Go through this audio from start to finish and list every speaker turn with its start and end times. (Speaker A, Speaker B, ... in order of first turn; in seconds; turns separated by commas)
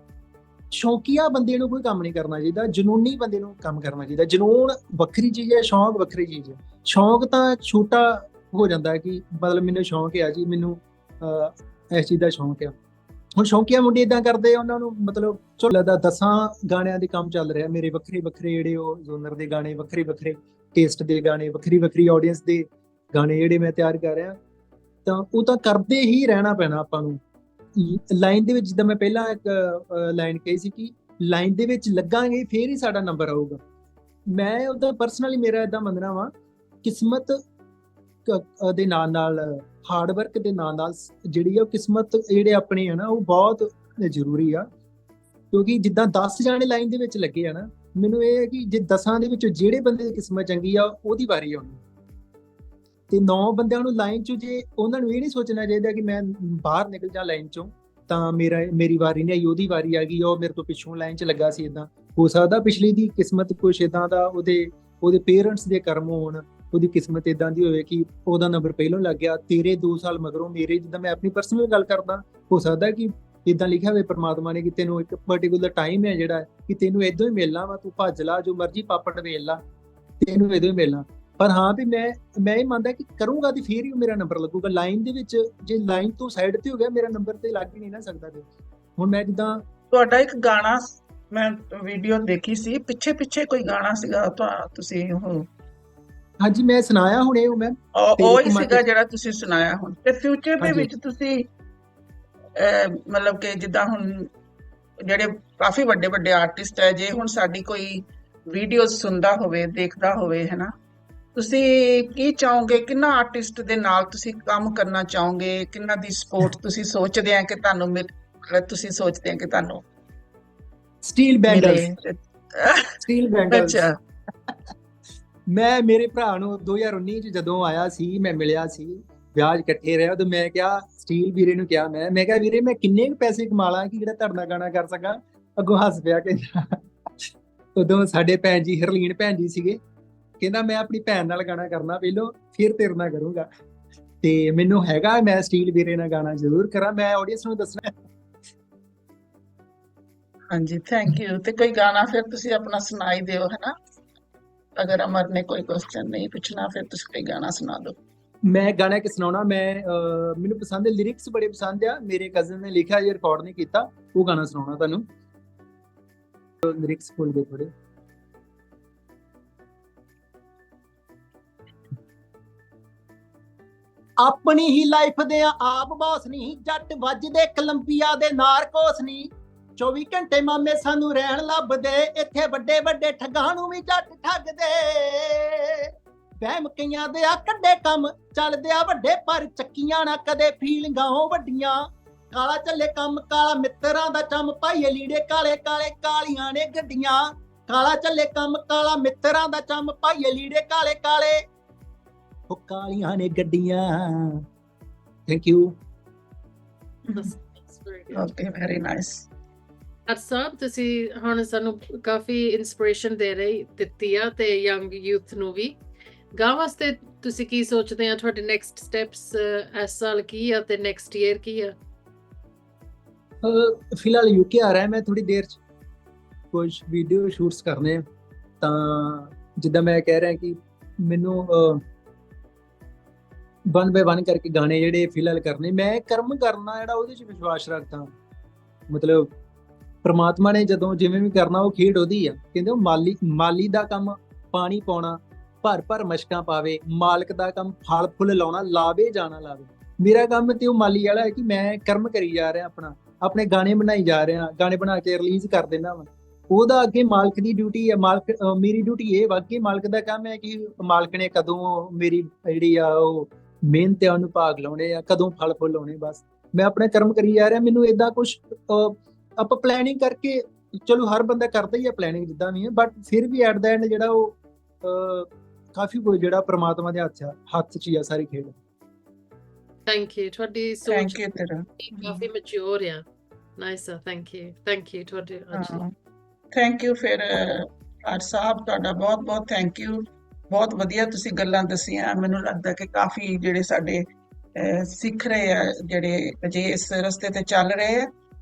Speaker A: 0.7-12.8, Speaker A: 13.4-24.4, Speaker A: 25.1-27.2, Speaker A: 27.8-33.6, Speaker A: 34.3-36.3, Speaker A: 36.8-37.4, Speaker A: 38.2-44.7, Speaker A: 45.5-51.8, Speaker A: 53.1-79.6, Speaker A: 80.2-89.6, Speaker B: 89.9-95.5, Speaker A: 96.4-98.8, Speaker B: 97.9-101.5, Speaker A: 100.6-100.9, Speaker B: 102.5-104.3, Speaker B: 105.0-110.7, Speaker B: 111.3-119.8, Speaker A: 121.0-121.9, Speaker B: 121.5-124.0, Speaker A: 123.0-123.8, Speaker A: 125.5-139.8, Speaker A: 140.4-143.5, Speaker A: 144.2-148.0, Speaker B: 150.5-153.8, Speaker B: 154.8-158.0, Speaker A: 158.4-165.1, Speaker A: 166.6-167.7, Speaker A: 174.2-201.5, Speaker A: 202.5-204.5, Speaker A: 205.3-205.8, Speaker B: 207.1-207.3, Speaker C: 207.1-208.3, Speaker B: 208.1-209.3, Speaker C: 210.1-215.8, Speaker C: 216.3-221.8, Speaker A: 223.4-225.6, Speaker A: 226.5-228.1, Speaker A: 228.6-231.8, Speaker A: 233.7-238.1, Speaker A: 238.9-239.3, Speaker A: 240.0-278.6, Speaker C: 279.9-281.2, Speaker B: 280.9-282.3, Speaker C: 281.8-283.1, Speaker C: 283.6-285.8, Speaker B: 285.5-285.9, Speaker B: 286.5-298.1